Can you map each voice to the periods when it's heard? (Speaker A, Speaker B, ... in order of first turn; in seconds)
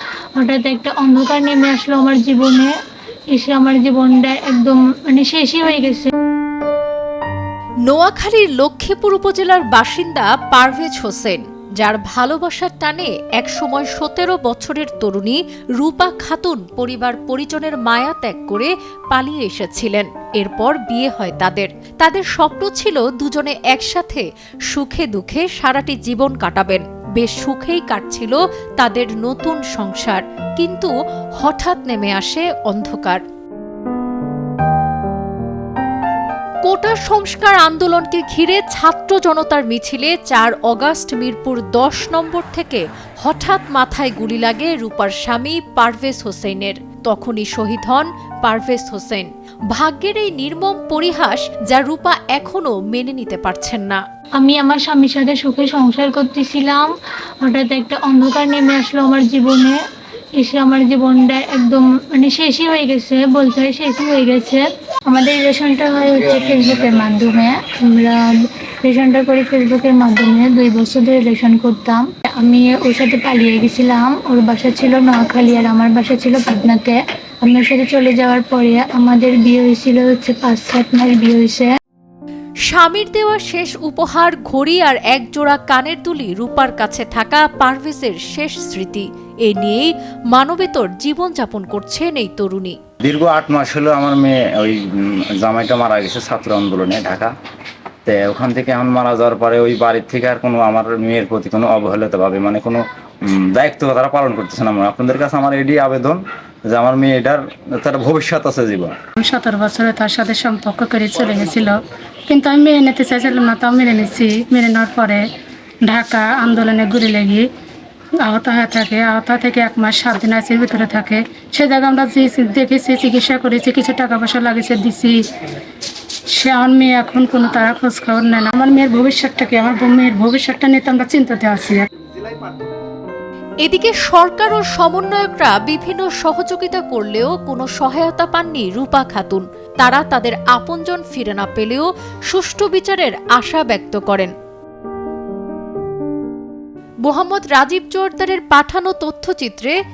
Speaker A: 0.4-2.7, 3.3-6.1, 54.4-56.9, 57.4-59.8, 60.4-68.3, 68.8-81.7
Speaker B: 7.9-33.2, 36.7-54.0, 82.7-92.8, 133.6-144.3, 147.0-149.7
Speaker C: 93.0-97.3, 98.0-108.9
Speaker D: 109.2-111.8, 112.3-115.2, 115.8-117.5, 118.2-125.2, 126.4-131.9